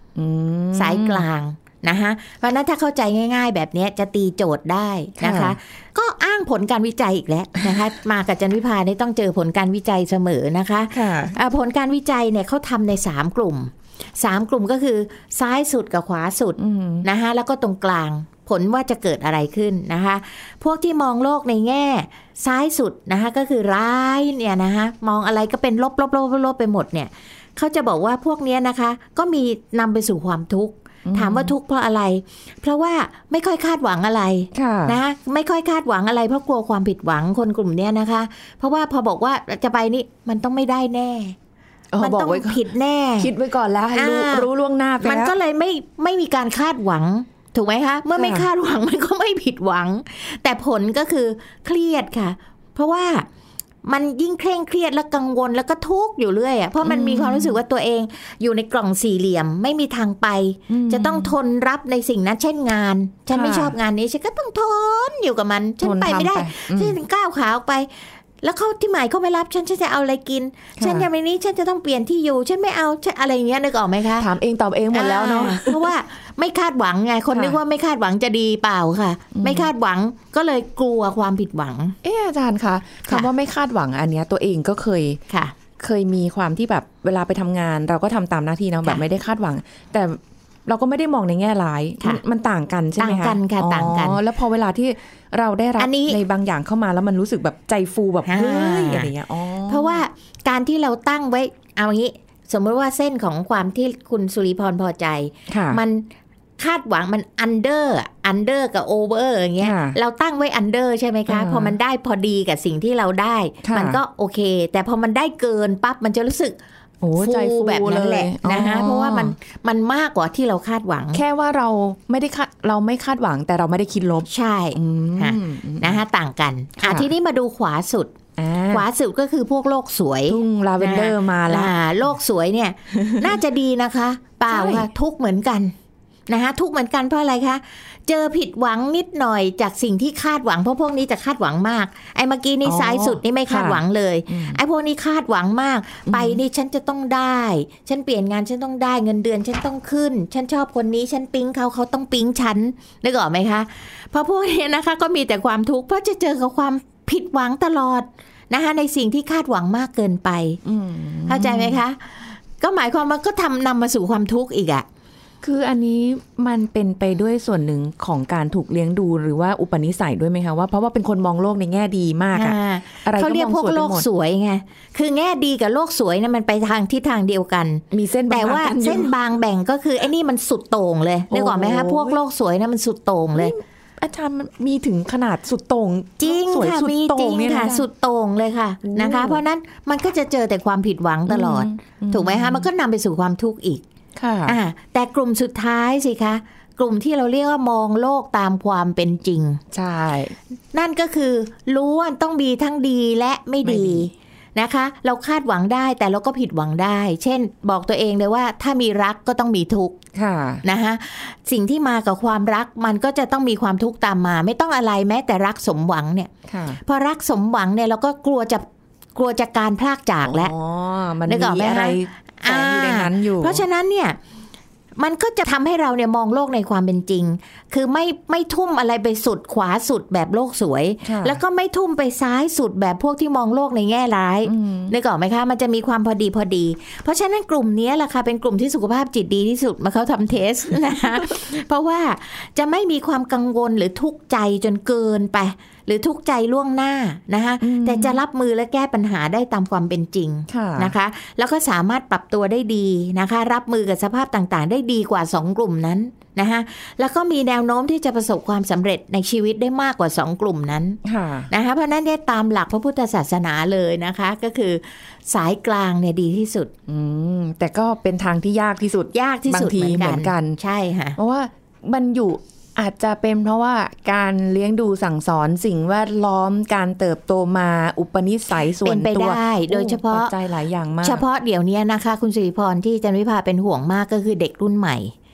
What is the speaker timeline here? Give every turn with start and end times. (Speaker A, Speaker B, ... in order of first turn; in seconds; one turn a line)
Speaker A: 0.1-1.2
Speaker B: 0.7-41.4
Speaker A: 5.2-5.5
Speaker A: 10.9-11.3
Speaker A: 16.6-17.1
Speaker A: 31.0-31.5
Speaker A: 34.5-35.0
Speaker A: 41.9-42.6
Speaker B: 42.0-43.3
Speaker A: 43.2-45.3
Speaker B: 43.9-44.5
Speaker B: 45.0-53.2
Speaker A: 48.1-48.5
Speaker B: 53.8-67.9
Speaker A: 56.8-57.6
Speaker A: 60.7-61.3
Speaker A: 63.3-63.7
Speaker A: 65.8-67.0
Speaker B: 68.4-74.3
Speaker A: 70.8-71.1
Speaker A: 74.2-75.9
Speaker B: 74.9-82.0
Speaker A: 77.3-77.6
Speaker A: 79.3-79.7
Speaker A: 82.0-85.2
Speaker A: 85.8-100.0
Speaker B: 93.0-94.2
Speaker B: 95.8-96.2
Speaker B: 98.3-99.1
Speaker B: 99.7-106.1
Speaker A: 105.5-105.8
Speaker B: 106.6-116.6
Speaker A: 109.6-110.0
Speaker A: 111.3-111.8
Speaker A: 113.6-114.0
Speaker A: 117.0-119.4
Speaker B: 117.2-121.2
Speaker A: 121.1-126.0
Speaker B: 124.3-128.1
Speaker A: 126.8-127.1
Speaker A: 128.4-128.8
Speaker B: 128.7-135.7
Speaker A: 130.3-131.7
Speaker A: 132.9-133.3
Speaker A: 134.5-134.9
Speaker B: 136.3-160.6
Speaker A: 142.6-144.6
Speaker A: 146.1-146.4
Speaker A: 160.6-161.8
Speaker B: 161.3-164.8
Speaker A: 165.4-174.1
Speaker B: 172.3-183.5
Speaker A: 177.9-179.1
Speaker A: 181.3-182.2
Speaker A: 183.3-187.8
Speaker B: 186.2-193.8
Speaker A: 188.8-189.4
Speaker A: 191.3-192.7
Speaker A: 194.2-194.6
Speaker B: 194.5-199.6
Speaker A: 199.7-200.3
Speaker B: 200.7-210.0
Speaker A: 203.6-204.1
Speaker A: 210.1-210.6
Speaker B: 210.6-216.3
Speaker A: 216.5-216.8
Speaker B: 216.8-220.5
Speaker A: 220.2-223.6
Speaker B: 221.3-224.2
Speaker B: 225.0-266.7
Speaker A: 231.0-231.4
Speaker A: 234.4-234.9
Speaker A: 247.6-248.2
Speaker A: 250.5-250.9
Speaker A: 261.0-261.5
Speaker A: 266.9-270.6
Speaker B: 269.1-271.2
Speaker A: 271.1-281.2
Speaker B: 278.8-280.3
Speaker B: 281.0-285.1